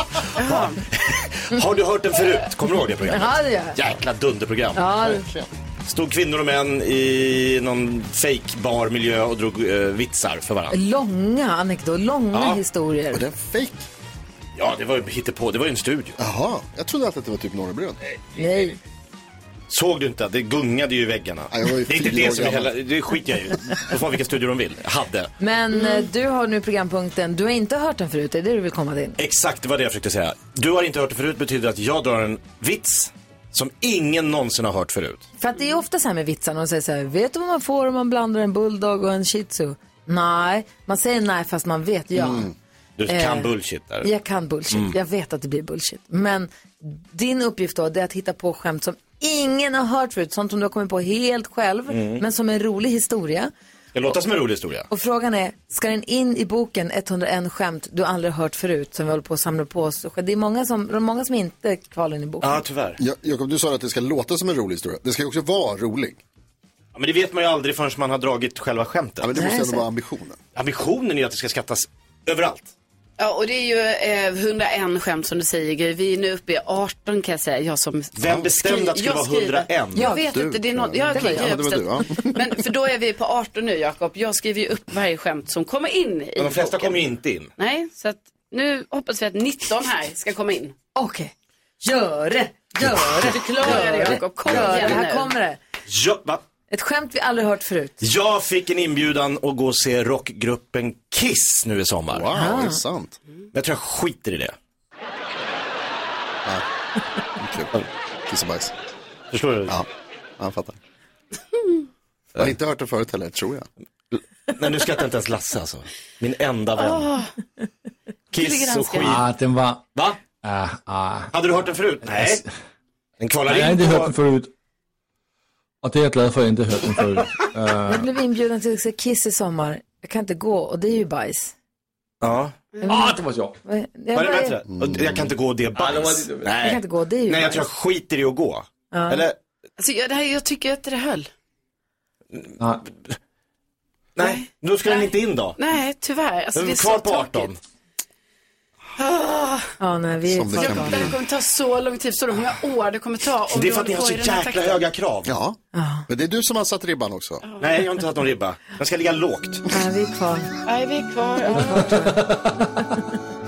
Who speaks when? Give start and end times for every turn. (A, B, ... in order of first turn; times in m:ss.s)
0:00.3-0:04.8 A
0:00.4-0:00.8 B
0:03.1-0:03.8 C
0:04.7-0:05.2 C
0:04.9-0:05.5 D
0:05.8-0:10.8 A
0:10.7-0:13.2 C
0:12.3-0:12.6 A
0:13.1-0:13.8 D
0:14.6-0:16.2 A
0:16.2-0:18.0 D
0:18.3-0:18.8 C
0:19.7-0:25.3 A
0:21.5-0:22.8 D
0:25.4-0:29.2 C
0:29.2-0:35.2 A
0:35.4-0:42.5 C
0:42.1-0:42.5 D
0:43.0-0:44.1 A
0:43.1-0:43.5 C
0:44.0-0:53.5 C
0:51.9-0:52.2 A
0:53.9-0:54.9 A
0:54.9-1:02.6 C
1:02.4-1:03.0 A
1:03.0-1:06.2 D
1:06.9-1:09.3 A
1:09.2-1:10.4 D
1:09.3-1:09.8 C
1:10.5-1:12.7 A
1:13.2-1:27.0 B
1:18.2-1:20.2 A
1:20.1-1:22.4 D
1:21.1-1:21.5 C
1:26.4-1:27.5 A
1:27.6-1:30.7 B
1:31.0-1:35.6 C
1:33.3-1:35.3 B
1:34.5-1:34.9 D
1:35.9-1:36.4 A
1:36.7-1:38.0 C
1:38.0-1:42.2 A
1:42.1-1:43.2 D
1:42.3-1:42.8 C
1:43.5-1:44.5 A
1:47.4-1:47.7 D
1:48.3-1:48.7 D
1:49.3-1:49.8 A
1:50.4-1:50.8 D
1:52.4-1:53.7 D
1:54.1-1:57.1 A
1:56.8-1:57.3 B
1:58.3-1:59.3 A
1:58.3-1:59.2 B
1:59.0-2:01.3 E
2:01.3-2:02.4 A
2:02.0-2:02.5 E
2:03.2-2:04.1 A
2:03.4-2:04.5 E
2:05.8-2:08.1 E
2:07.8-2:11.5 C
2:12.2-2:12.5 A
2:12.8-2:14.6 C
2:12.8-2:13.6 E
2:14.1-2:19.4 A
2:14.7-2:15.3 D
2:15.8-2:16.5 E
2:16.6-2:17.7 C
2:18.9-2:19.2 C
2:19.8-2:21.3 B
2:22.3-2:23.2 A
2:24.2-2:25.6 A
2:24.2-2:27.5 B
2:26.5-2:27.6 A
2:29.0-2:29.7 B
2:29.8-2:31.1 C
2:30.3-2:31.2 D
2:30.6-2:34.8 B
2:33.5-2:35.3 A
2:35.2-2:37.4 D
2:35.7-2:36.1 C
2:37.4-2:38.0 B
2:37.6-2:39.7 A
2:39.7-2:40.5 C
2:40.6-2:42.1 B
2:41.7-2:42.6 E